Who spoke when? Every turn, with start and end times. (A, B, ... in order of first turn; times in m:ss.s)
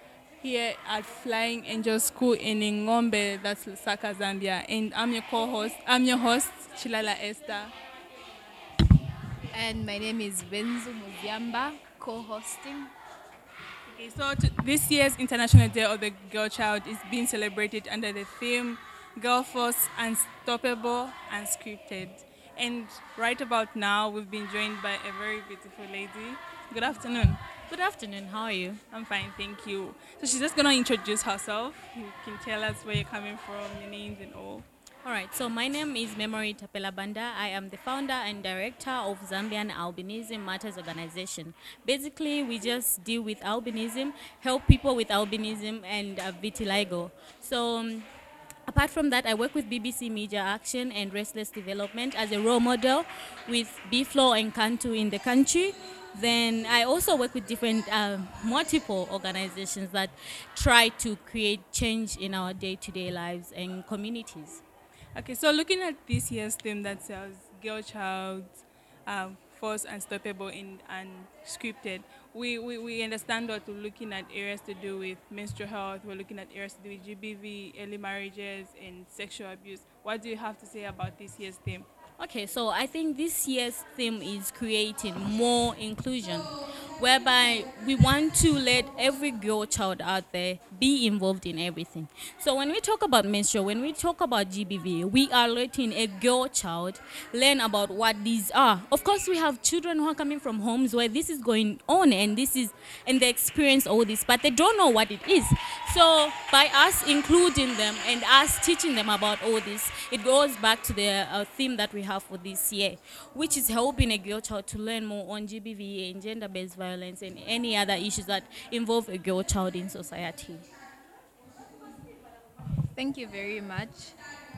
0:00.4-0:07.7 A
0:09.5-0:12.9 B
0:13.9-0:27.4 A
0:27.7-0:28.8 C
0:28.9-0:34.6 A
0:35.0-0:48.1 C
0:48.7-1:04.6 C
1:05.1-1:21.8 A
1:22.2-2:00.6 C
2:02.9-2:04.2 B